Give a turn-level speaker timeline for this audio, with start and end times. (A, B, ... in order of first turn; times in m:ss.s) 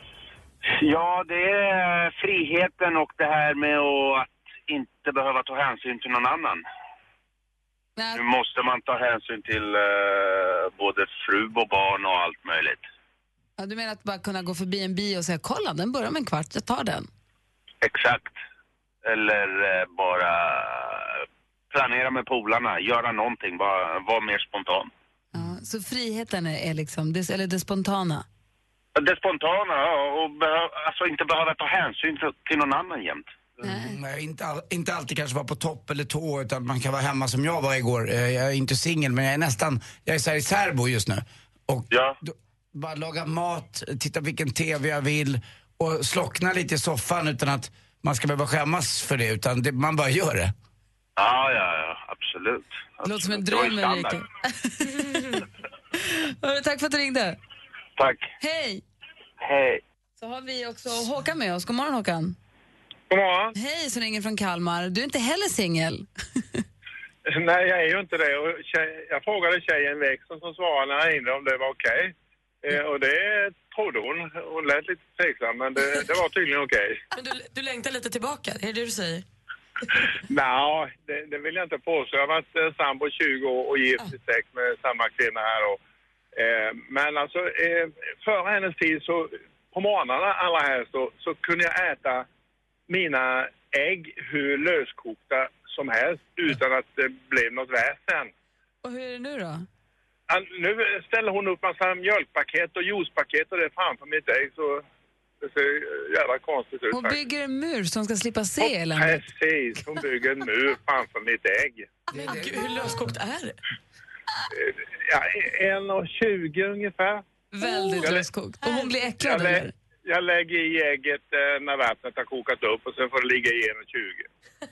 0:00.7-0:06.6 A
0:08.0-0:08.2 B
0:08.1-0:12.8 A
0:13.6-0:17.1 B
0:17.8-0:18.4 A
0:19.0-0:21.2 A
0:21.7-0:24.9 A
0:25.3-0:28.2 B
0:29.0-0:33.3 A
0:33.6-0:34.0 B
0:33.6-0:50.5 C
0:41.9-0:42.2 A
0:51.2-0:54.2 A
0:53.0-0:55.4 B
0:56.0-0:57.4 B
0:58.0-0:58.3 A
0:58.4-0:58.8 B
0:59.4-0:59.8 A
1:00.2-1:02.4 B
1:03.1-1:03.5 D
1:03.5-1:06.1 B
1:07.3-1:17.0 D
1:17.1-1:19.2 E
1:20.3-1:25.8 D
1:26.4-1:32.3 D
1:32.9-1:38.3 D
1:38.8-1:39.7 B
1:40.3-1:44.8 D
1:45.4-1:47.2 D
1:46.9-1:49.2 B
1:48.6-1:51.9 D
1:52.1-1:53.6 E
1:52.2-1:52.4 C
1:54.5-1:57.2 D
1:57.5-1:59.7 B
1:58.0-2:04.3 D